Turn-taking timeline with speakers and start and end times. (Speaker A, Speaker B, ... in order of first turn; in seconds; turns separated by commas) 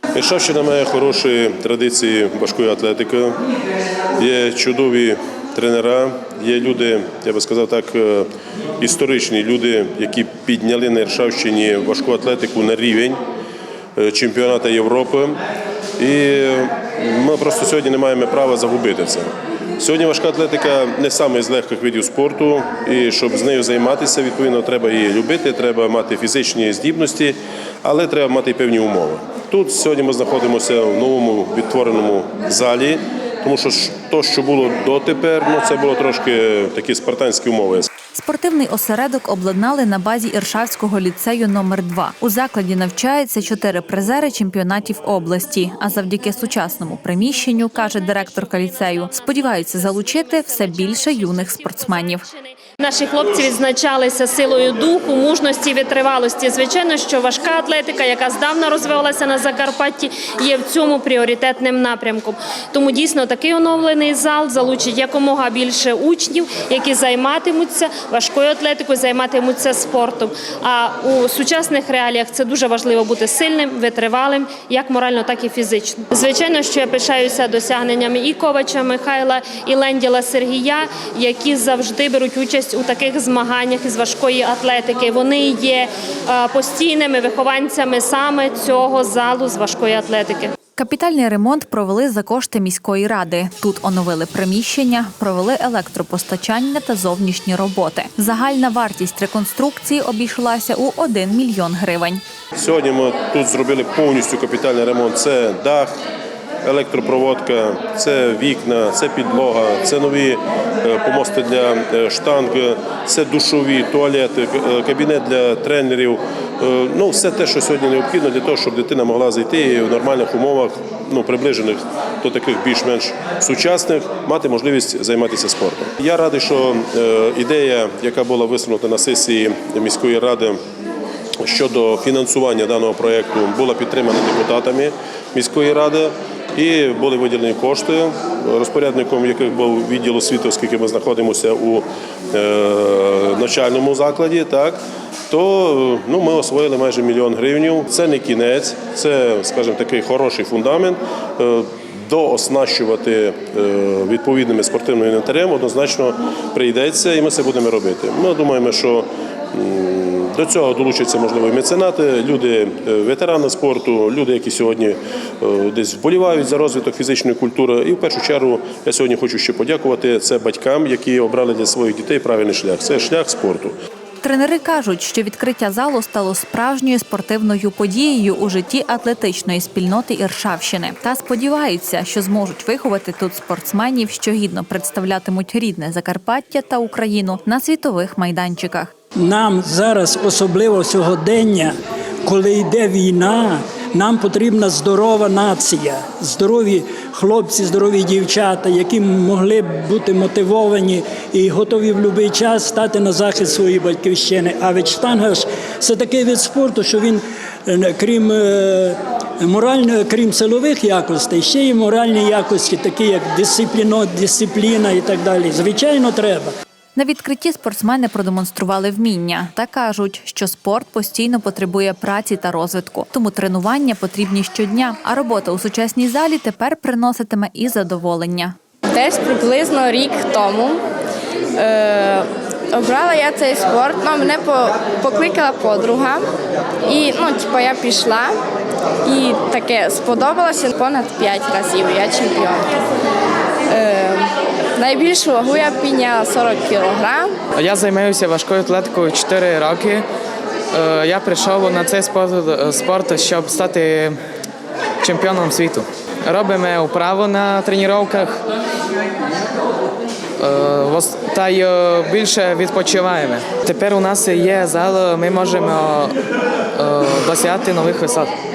Speaker A: 0.1-3.4, Speaker A: 4.2-8.3, Speaker A: 8.8-13.2, Speaker A: 13.9-15.4, Speaker A: 16.0-37.9, Speaker B: 38.1-52.2, Speaker C: 47.7-90.5, Speaker B: 90.8-102.2, Speaker A: 102.5-105.9, Speaker A: 106.6-130.6, Speaker A: 131.4-144.8, Speaker A: 145.3-173.7, Speaker B: 174.2-188.9, Speaker D: 189.2-216.5, Speaker B: 216.9-228.6, Speaker E: 228.9-230.8, Speaker E: 231.6-236.3, Speaker E: 236.8-238.4, Speaker E: 239.0-242.8, Speaker E: 243.7-247.4, Speaker F: 247.5-250.1, Speaker F: 250.7-254.2, Speaker F: 255.0-258.4, Speaker F: 260.4-266.2, Speaker F: 266.7-268.3